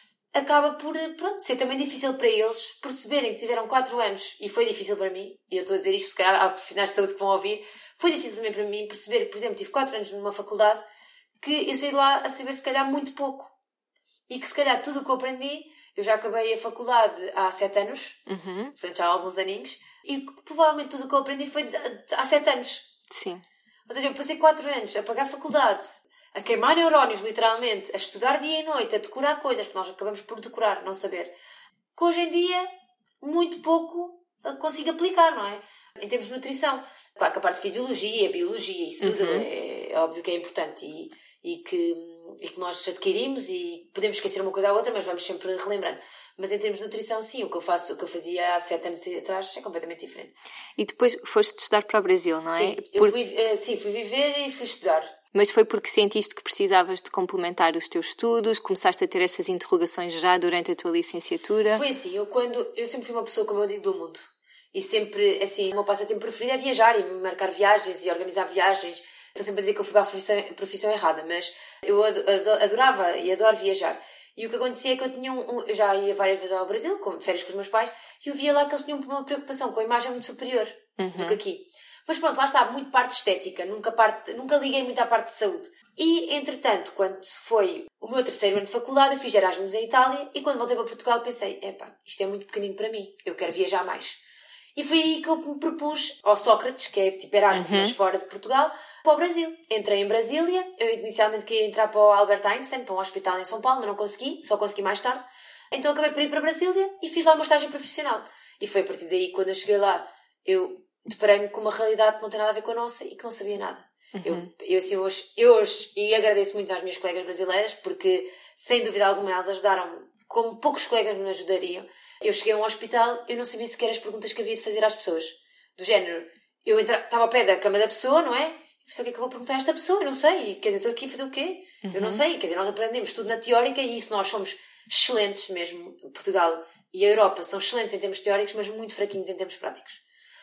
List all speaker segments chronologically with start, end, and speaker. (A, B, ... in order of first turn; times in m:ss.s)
0:00.3-0:10.8 A
0:11.4-0:13.5 A
0:14.3-0:18.2 A
0:18.3-0:18.7 B
0:18.8-0:22.9 A
0:23.1-0:23.4 B
0:23.9-0:31.3 A
0:31.9-0:32.7 A
0:33.2-0:50.3 A
0:39.0-0:39.5 B
0:50.8-0:53.1 B
0:52.5-0:55.1 A
0:55.3-1:01.8 B
1:01.7-1:34.2 A
1:21.0-1:21.4 B
1:34.7-2:20.0 A
1:37.5-1:37.9 B
1:54.1-1:54.5 B
2:11.8-2:12.2 B